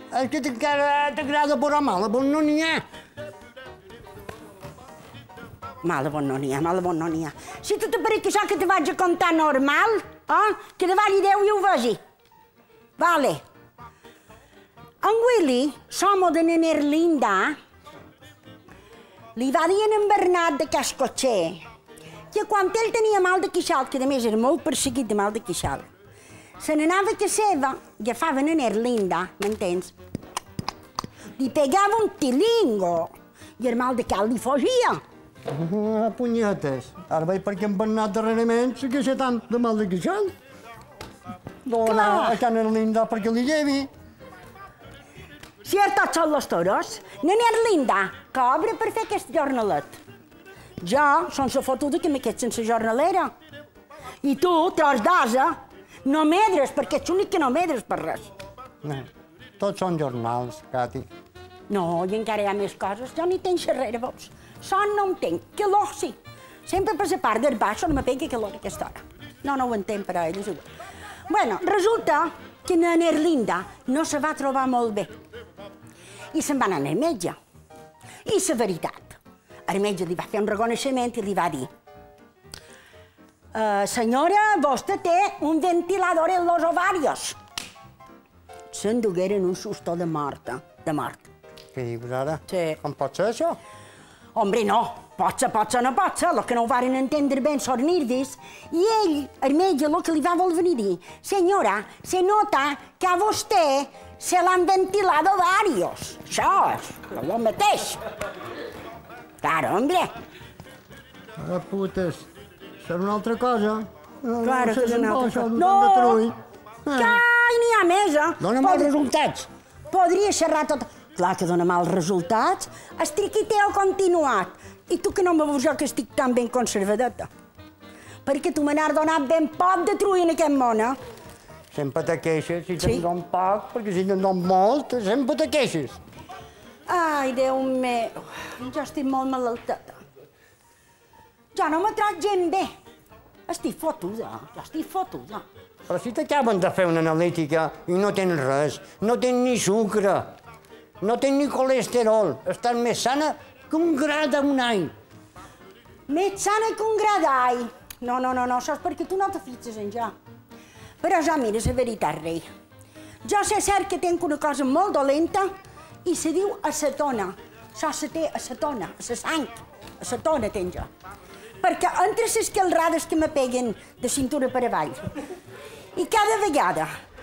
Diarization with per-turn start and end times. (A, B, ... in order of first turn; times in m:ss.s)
0:00.1-0:02.8 A
0:05.8-0:12.0 B
0:13.0-0:13.4 B
0:15.0-0:17.6 B
0:19.3-0:21.6 B
0:22.3-0:25.9 B
0:26.6-0:29.9 B
0:31.4-0:35.0 B
0:35.5-0:40.3 A
0:41.7-0:43.9 A
0:41.8-0:42.4 B
0:45.6-0:50.0 B
0:50.8-0:53.3 B
0:54.2-0:55.5 B
0:56.0-0:58.3 B
0:58.8-0:59.1 A
0:59.6-1:01.1 A
1:01.7-1:10.7 B
1:11.3-1:15.2 B
1:16.3-1:17.3 B
1:18.2-1:21.7 B
1:23.5-1:27.4 B
1:28.7-1:31.3 B
1:31.7-1:33.6 A
1:32.5-1:32.8 B
1:34.3-1:48.0 B
1:49.4-1:50.1 B
1:51.4-1:52.2 A
1:52.8-1:57.2 A
1:54.4-1:56.2 B
1:56.9-1:58.9 B
1:58.4-1:59.5 A
1:59.9-2:07.3 B
2:08.2-2:11.0 B
2:11.7-2:16.0 A
2:12.8-2:13.0 B
2:16.9-2:20.0 B
2:21.5-2:22.7 B
2:23.5-2:25.4 B
2:25.9-2:30.3 A
2:31.0-2:34.9 A
2:36.1-2:40.1 B
2:41.0-2:42.4 B
2:43.2-2:45.5 B
2:46.0-2:50.9 B
2:51.6-2:55.1 B
2:55.9-2:56.9 B